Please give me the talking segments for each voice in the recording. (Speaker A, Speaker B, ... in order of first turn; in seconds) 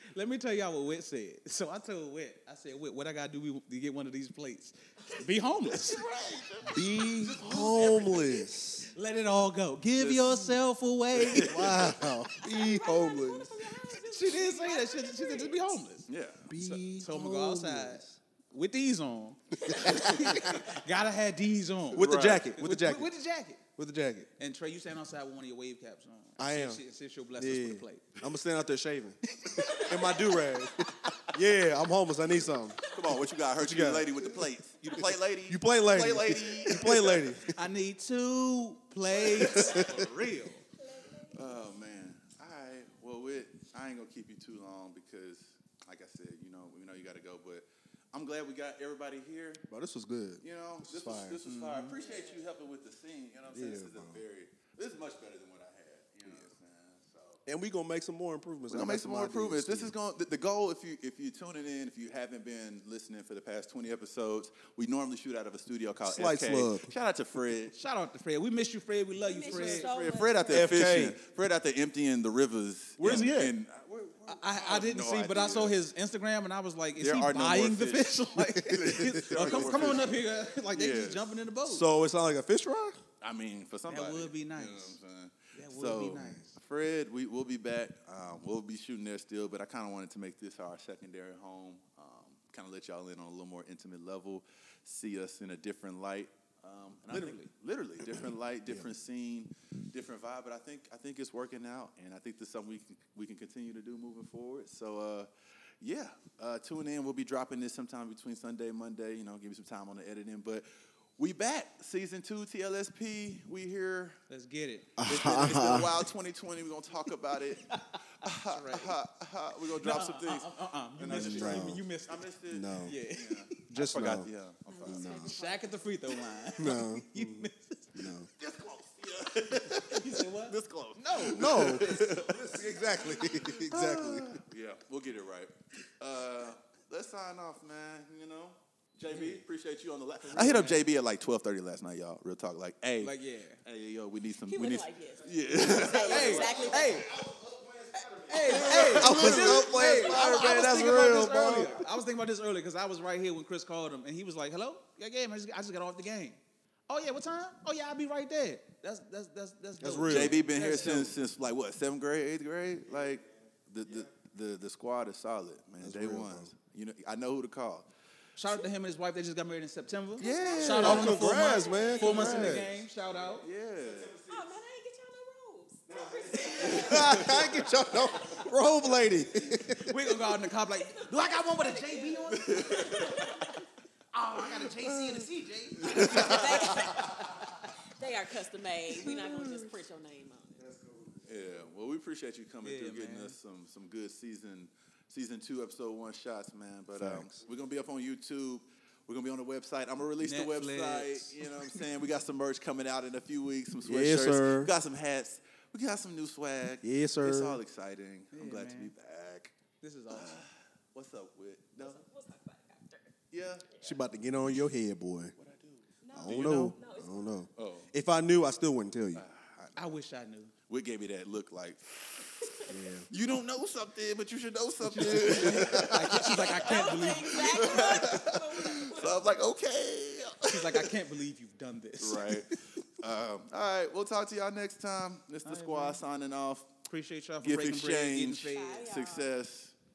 Speaker A: 0.1-6.0, 8.9-11.6, 14.1-23.6, 24.4-28.1, 37.4-40.6, 51.5-52.0, 67.7-69.9, 73.0-73.3, 74.3-81.9, 83.9-85.0, 85.5-86.5, 97.1-97.5, 114.3-114.9, 117.7-119.0, 119.7-122.3, 122.8-123.7, 125.3-128.0, 129.9-132.0, 139.1-139.4, 140.2-140.8, 143.0-143.6, 146.0-147.1, 148.3-161.2, 168.4-173.5, 179.8-183.3, 184.1-186.7, 192.6-193.3, 200.2-201.8, 208.3-208.9, 209.8-210.5, 219.8-220.5, 224.8-228.0, 230.5-232.6, 235.5-236.0, 236.9-238.9
Speaker B: 5.7-8.5, 10.0-10.6, 11.2-12.1, 16.1-16.5, 22.0-22.5, 32.9-37.4, 39.3-39.9, 41.3-49.6, 50.4-57.4, 58.7-67.8, 69.5-75.8, 77.0-81.3, 83.2-105.3, 105.8-110.7, 111.2-114.2, 115.0-125.3, 128.4-146.8, 148.4-150.6, 160.1-167.9, 170.2-172.7, 173.3-174.2, 176.4-177.6, 182.3-183.3, 184.4-185.3, 185.8-187.2, 189.0-189.7, 191.2-209.5, 210.1-212.0, 213.3-213.8, 215.4-216.8, 217.6-217.9, 219.2-219.8, 220.7-230.9, 232.0-236.7, 237.4-239.8
Speaker C: 6.7-8.9, 11.2-13.6, 16.5-18.2, 19.6-20.7, 21.9-23.1, 23.8-24.3, 26.4-26.8, 27.4-37.5, 39.3-40.0, 49.7-51.4, 53.5-54.2, 57.5-59.9, 66.1-66.9, 70.5-71.2, 73.0-73.5, 78.6-80.0, 81.7-83.0, 98.2-98.9, 115.0-116.1, 121.1-121.8, 122.5-123.0, 123.7-124.3, 124.8-125.3, 126.6-128.3, 131.2-134.4, 145.5-151.8, 159.8-160.4, 165.8-166.5, 170.8-172.7, 176.2-179.9, 190.6-191.4, 196.9-197.4, 203.8-204.7, 206.8-207.6, 213.8-215.3, 216.1-219.2, 222.7-223.1, 225.3-226.1
Speaker D: 12.4-15.8, 29.6-30.3, 32.8-33.1, 39.5-39.9, 40.7-41.6, 51.9-52.4, 69.2-71.0, 124.7-126.5, 144.5-147.2, 147.9-149.2, 149.7-149.9, 170.2-172.5, 174.2-179.5, 180.6-183.6, 185.8-190.7, 211.8-213.2, 213.7-214.0, 216.0-217.4, 226.2-229.4, 238.5-239.3